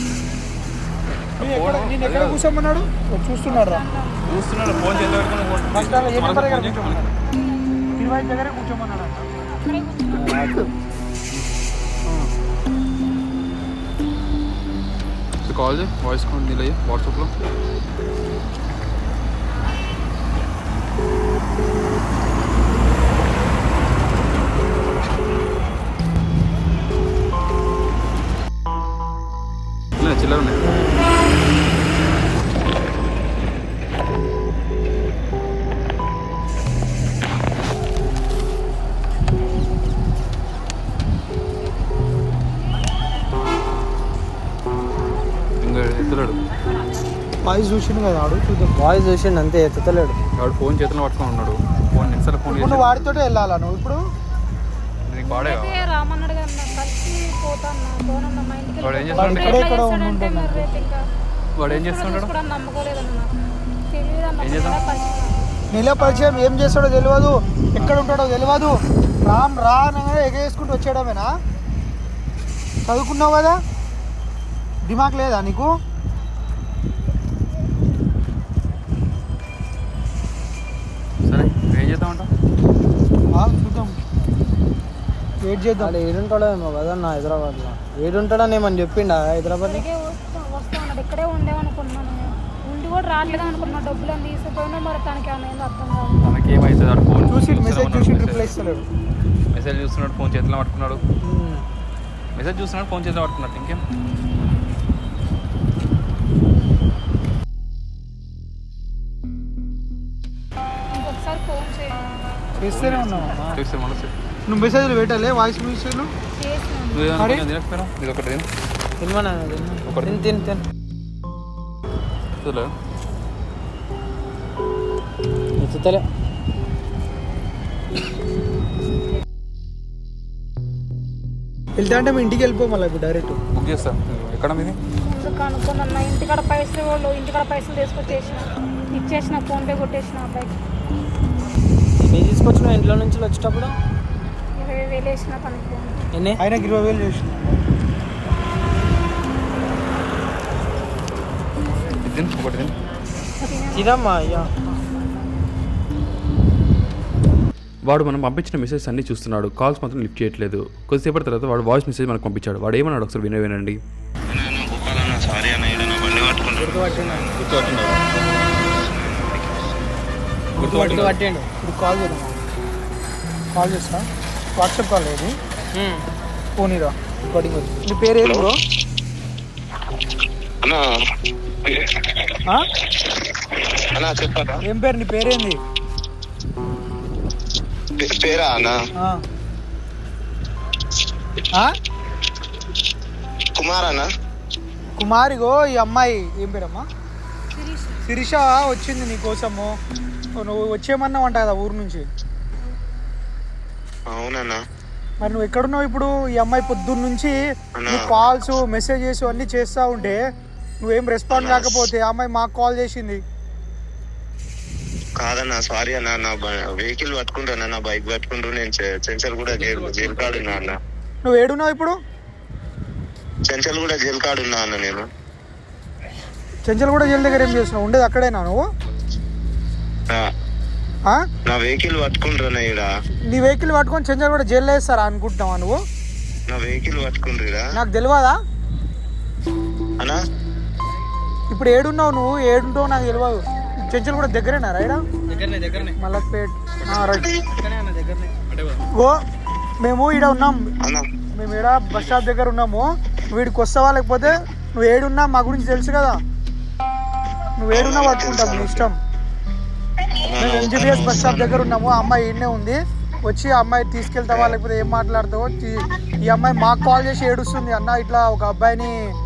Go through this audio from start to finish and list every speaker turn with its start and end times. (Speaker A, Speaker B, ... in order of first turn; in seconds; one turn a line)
Speaker A: 1.4-2.4
Speaker B: 1.4-3.8
Speaker C: 3.5-5.7
Speaker A: 4.3-7.1
Speaker B: 5.7-7.1
Speaker C: 7.3-7.8
Speaker B: 8.0-9.3
Speaker C: 9.4-10.4
Speaker B: 10.2-10.7
Speaker A: 15.4-17.3
Speaker A: 30.0-30.8
Speaker A: 45.6-46.4
Speaker B: 47.4-48.7
Speaker D: 48.8-50.2
Speaker A: 50.4-53.0
Speaker B: 52.5-54.0
Speaker A: 55.1-55.9
Speaker C: 55.2-61.0
Speaker A: 58.8-59.6
Speaker B: 59.1-60.7
Speaker A: 61.6-62.3
Speaker C: 61.7-63.3
Speaker C: 63.9-65.5
Speaker A: 64.4-64.8
Speaker B: 65.7-71.3
Speaker B: 72.9-73.6
Speaker B: 74.8-75.7
Speaker A: 81.3-82.3
Speaker B: 83.3-84.0
Speaker B: 85.4-86.0
Speaker D: 85.8-89.8
Speaker C: 89.6-96.2
Speaker A: 96.2-98.5
Speaker B: 97.3-98.9
Speaker A: 99.5-101.0
Speaker B: 101.2-101.6
Speaker A: 102.3-103.8
Speaker C: 110.9-112.0
Speaker B: 112.6-113.6
Speaker A: 112.6-114.1
Speaker B: 114.5-116.1
Speaker C: 116.3-117.1
Speaker A: 116.9-118.5
Speaker B: 117.2-117.5
Speaker D: 119.0-120.6
Speaker A: 119.8-120.2
Speaker A: 122.4-122.7
Speaker D: 125.6-126.1
Speaker B: 131.8-133.4
Speaker A: 133.5-134.8
Speaker C: 135.0-140.6
Speaker D: 142.0-143.8
Speaker C: 144.6-146.1
Speaker D: 146.1-146.4
Speaker B: 146.4-147.4
Speaker A: 152.0-152.7
Speaker C: 153.4-154.0
Speaker D: 153.8-154.5
Speaker E: 157.9-163.8
Speaker F: 164.3-166.8
Speaker D: 166.6-167.3
Speaker A: 167.4-168.0
Speaker A: 170.6-171.2
Speaker B: 170.7-172.4
Speaker D: 170.7-171.5
Speaker B: 173.5-174.1
Speaker B: 174.6-175.3
Speaker D: 175.8-176.0
Speaker B: 176.6-178.5
Speaker F: 178.2-178.5
Speaker F: 183.9-184.6
Speaker B: 184.7-185.6
Speaker F: 188.0-188.8
Speaker F: 193.6-194.1
Speaker B: 195.0-196.9
Speaker C: 197.5-198.1
Speaker B: 198.1-199.8
Speaker B: 200.4-202.1
Speaker F: 204.1-204.6
Speaker B: 205.2-207.3
Speaker B: 207.9-210.2
Speaker B: 210.8-213.2
Speaker F: 211.3-211.8
Speaker F: 215.2-220.8
Speaker A: 219.5-220.7
Speaker B: 221.2-222.0
Speaker F: 223.5-225.1
Speaker B: 226.7-228.6
Speaker F: 231.5-232.9
Speaker B: 233.2-235.8
Speaker F: 236.5-237.7
Speaker B: 237.8-238.4
Speaker B: 241.5-245.0
Speaker D: 245.3-245.9
Speaker B: 245.8-247.3
Speaker D: 247.5-248.3
Speaker A: 248.5-248.9
Speaker B: 249.8-250.7
Speaker B: 251.3-256.2
Speaker A: 251.9-252.2
Speaker B: 257.6-258.9
Speaker F: 257.7-258.9
Speaker F: 260.3-261.7
Speaker B: 260.4-268.9